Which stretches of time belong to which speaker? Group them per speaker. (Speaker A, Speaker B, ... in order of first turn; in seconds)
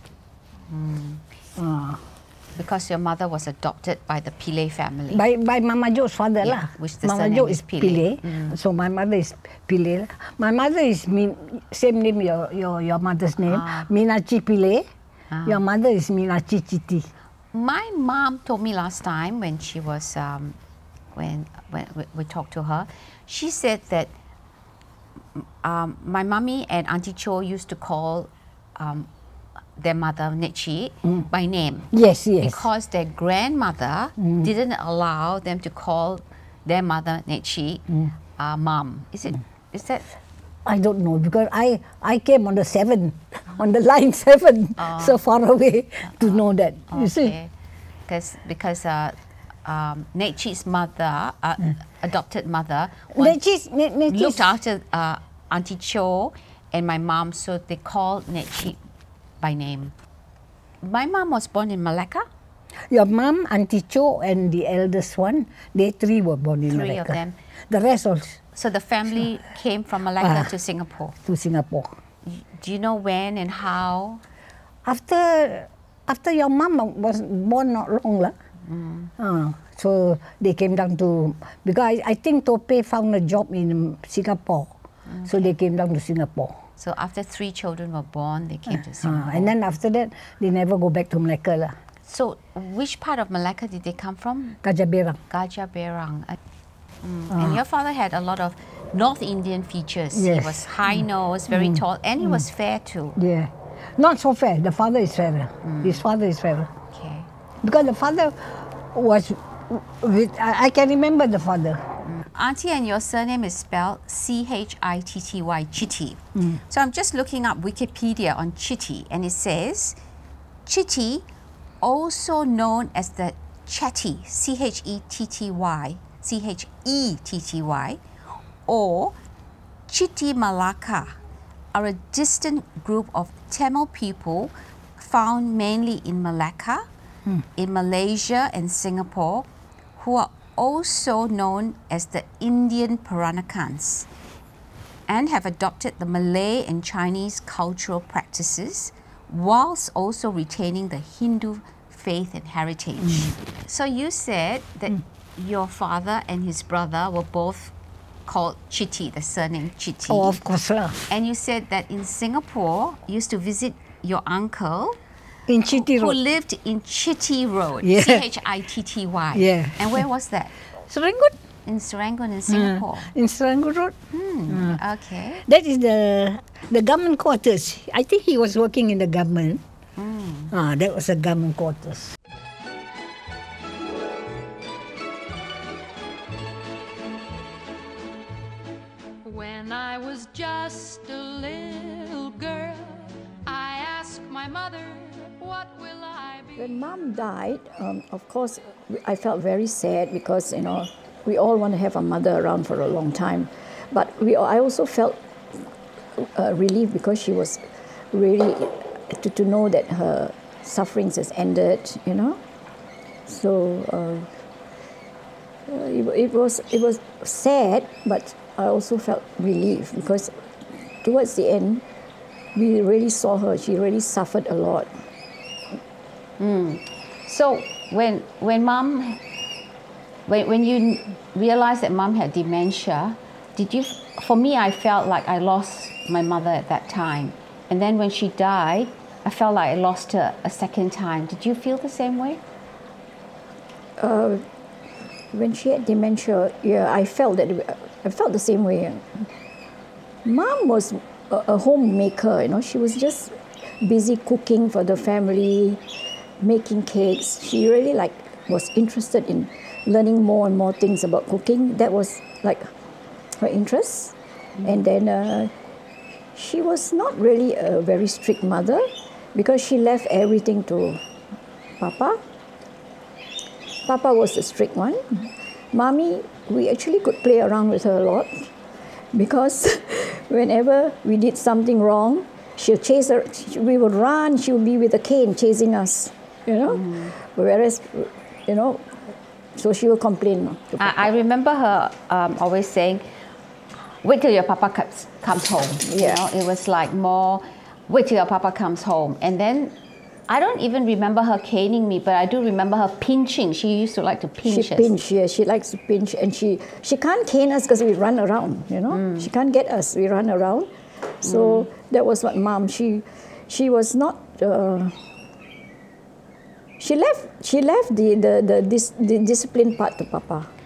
Speaker A: 0.7-1.2, 2.6-5.2, 6.4-8.6, 13.5-13.9, 15.3-15.6, 17.5-20.6, 21.1-24.1, 25.6-29.1, 29.8-37.8, 38.4-40.1, 44.8-45.2, 46.2-47.5, 48.1-53.4, 54.1-58.8, 59.4-59.9, 60.8-62.3, 66.7-67.4, 68.5-71.2, 72.2-74.2, 78.7-79.1, 85.1-85.5, 86.8-89.5, 92.1-94.6, 95.3-96.4, 97.0-103.2, 105.6-106.0, 106.9-107.3, 112.0-120.0, 120.7-121.3, 121.8-128.0, 128.7-129.2, 129.9-131.2, 131.7-136.9, 137.6-144.1, 145.1-157.7, 158.3-160.4, 161.1-165.0, 165.7-170.5, 171.7-173.1, 174.1-175.4, 180.0-180.5, 226.4-229.2, 230.3-242.4, 286.7-287.1, 290.8-293.0, 294.0-299.7, 300.3-304.9, 308.9-309.3, 311.2-311.7
Speaker B: 1.6-2.0, 5.1-14.9, 15.5-17.1, 31.9-32.7, 34.2-34.5, 40.6-47.4, 53.1-54.5, 62.9-67.2, 67.7-68.4, 70.2-70.5, 71.2-71.9, 74.8-78.3, 79.2-84.7, 85.2-86.6, 88.7-91.8, 94.6-95.2, 97.3-97.6, 100.1-102.4, 103.2-106.7, 107.6-111.9, 116.4-116.6, 153.0-153.3, 160.1-161.0, 165.5-166.2, 167.8-168.2, 169.3-170.0, 170.9-171.3, 172.5-174.0, 174.5-174.8, 175.5-179.6, 180.5-182.2
Speaker C: 189.2-196.8
Speaker D: 196.6-205.2, 206.2-212.4, 213.3-214.3, 215.7-220.3, 221.0-221.8, 222.6-224.9, 244.0-244.4, 245.3-249.2, 250.2-255.8, 256.4-262.7, 263.4-265.5, 266.4-271.0, 271.8-272.2, 273.9-278.5, 279.1-289.0, 289.6-291.1, 295.9-296.2, 304.5-310.7, 311.2-315.0, 316.8-320.5